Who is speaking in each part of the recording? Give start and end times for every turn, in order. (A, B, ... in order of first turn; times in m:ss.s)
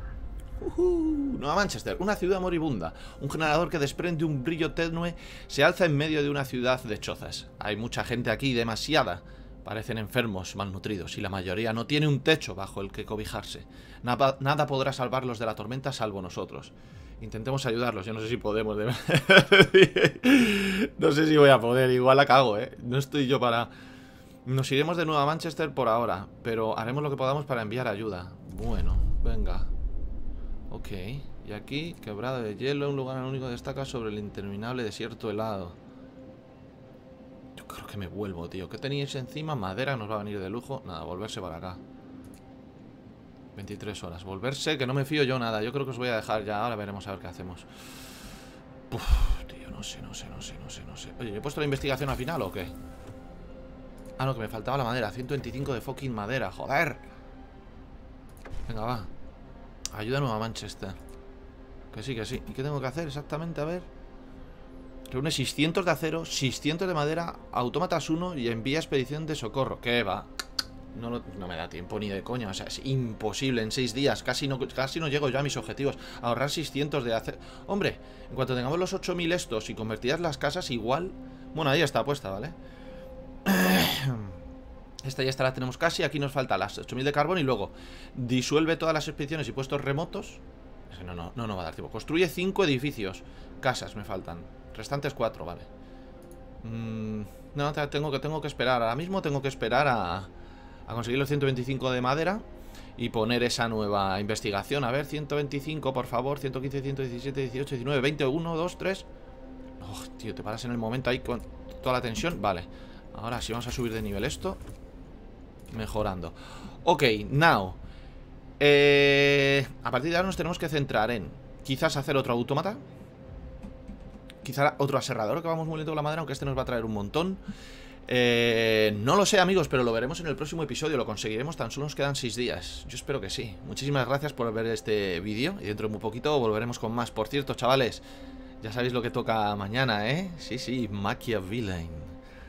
0:00.6-0:23.7 A
0:24.4-0:29.7 A
0:30.7-0:35.8 A
0:37.6-0:41.8 A
0:43.5-0:47.9 A
0:48.9-0:52.7 A
0:54.2-0:57.0 A
0:58.7-0:59.1 A
0:59.9-1:01.0 A
1:01.9-1:03.9 A
1:05.1-1:10.3 A
1:10.9-1:22.6 A
1:23.4-1:24.4 A
1:25.0-1:35.7 A
1:36.6-1:40.3 A
1:40.9-1:42.4 A
1:43.0-1:49.1 A
1:49.8-1:54.6 A
1:55.7-1:57.8 A
1:58.6-2:02.8 A
2:04.4-2:07.4 A
2:08.0-2:18.0 A
2:18.6-2:22.2 A